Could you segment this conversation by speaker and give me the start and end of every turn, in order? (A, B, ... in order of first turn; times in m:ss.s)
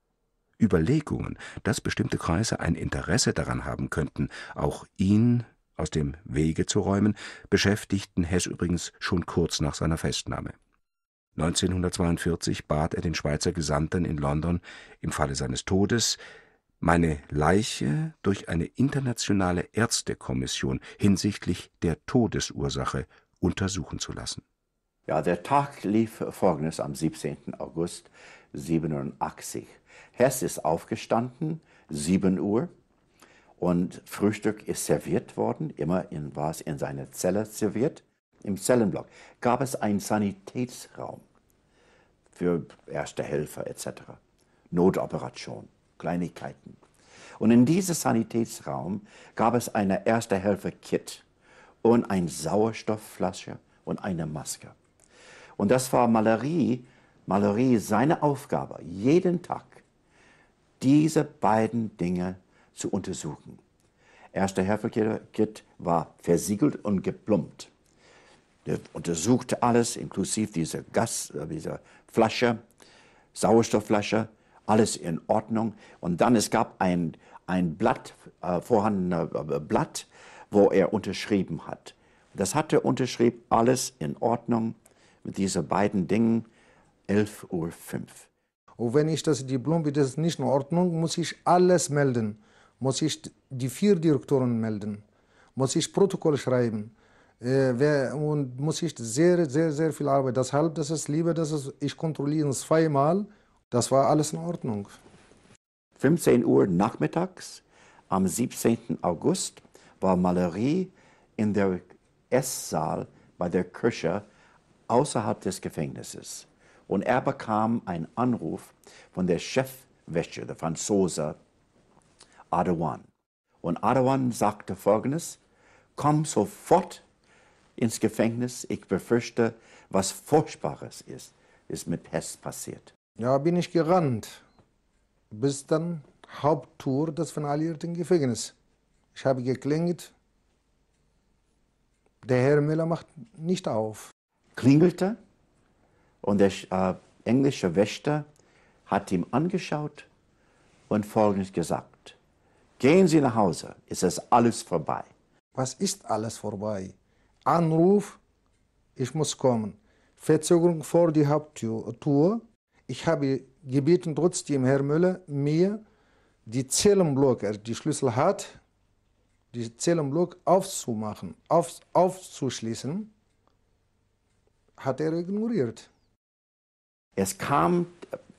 0:00.6-0:10.5 A
0:11.4-0:16.2 A
0:16.8-0:24.4 A
0:25.1-0:32.7 B
0:33.6-0:41.2 B
0:42.3-0:44.2 B
0:44.7-0:46.8 B
0:47.4-0:51.2 B
0:51.8-0:54.7 B
0:55.6-0:59.8 B
1:00.8-1:03.6 B
1:04.3-1:07.7 B
1:08.6-1:12.6 B
1:13.3-1:26.5 B
1:27.1-1:28.3 B
1:28.8-1:35.0 C
1:35.6-1:45.0 C
1:46.0-1:54.2 B
1:54.9-2:01.4 B
2:02.5-2:03.1 B
2:03.6-2:05.4 B
2:06.0-2:07.0 B
2:07.8-2:12.9 B
2:13.2-2:14.4 C
2:15.3-2:18.5 C
2:19.1-2:20.1 C
2:22.2-2:24.1 C
2:24.6-2:25.2 B
2:26.2-2:28.2 B
2:28.8-2:30.1 B
2:30.9-2:32.2 B
2:32.8-2:35.1 B
2:35.5-2:36.9 C
2:37.4-2:38.2 C
2:39.0-2:45.8 C
2:46.4-2:48.6 C
2:49.5-2:53.1 C
2:54.8-2:55.9 C
2:57.2-2:58.1 B